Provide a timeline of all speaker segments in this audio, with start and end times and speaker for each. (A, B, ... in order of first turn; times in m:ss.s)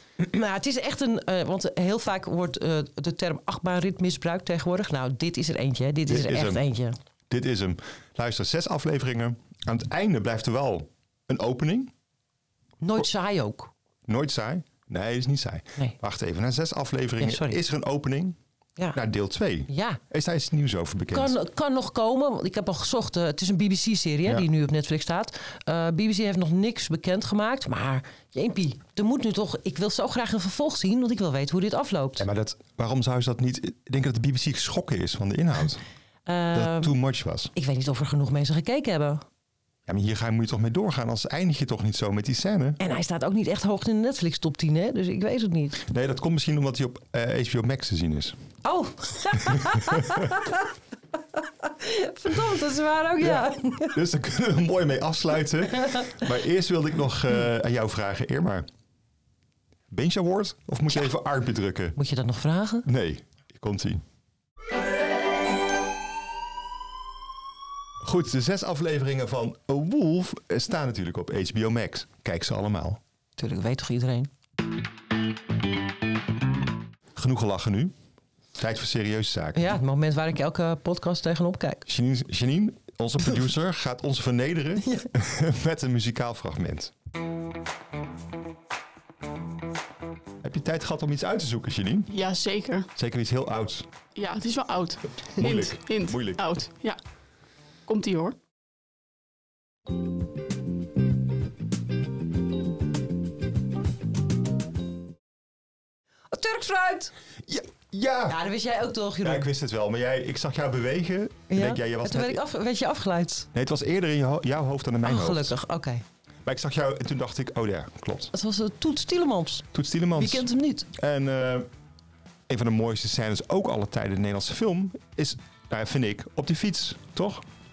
0:00.2-0:07.0 A
0:06.1-0:06.6 B
0:07.3-0:11.9 B
0:12.8-0:13.7 A
0:14.1-0:18.4 B
0:17.2-0:17.6 A
0:18.9-0:21.4 B
0:19.7-0:20.0 A
0:21.1-0:32.2 A
0:32.2-0:35.8 B
0:36.3-0:37.0 A
0:36.5-0:37.5 B
0:37.5-0:39.2 A
0:39.9-0:42.8 B
0:42.8-0:45.8 A
0:45.8-0:48.4 B
0:48.6-0:50.7 A
0:49.4-0:50.2 B
0:51.3-0:54.0 A
0:53.2-0:58.7 B
0:59.9-1:02.0 B
1:02.0-1:02.8 A
1:02.8-1:04.0 B
1:08.0-1:13.0 B
1:13.4-1:14.3 A
1:17.2-1:17.9 B
1:18.6-1:19.7 B
1:19.5-1:21.8 A
1:21.9-1:26.9 B
1:30.4-1:32.1 B
1:32.1-1:32.9 C
1:33.0-1:33.9 B
1:34.2-1:37.0 C
1:35.4-1:36.4 B
1:37.9-1:38.4 C
1:46.3-1:47.1 A
1:47.5-1:48.4 B
1:48.3-1:49.5 A
1:49.2-1:52.4 B
1:51.5-1:53.5 A
1:53.5-1:55.6 B
1:55.0-1:56.0 A
1:56.4-1:58.3 B
1:58.3-2:00.9 A
1:59.7-2:01.7 B
2:02.5-2:07.4 B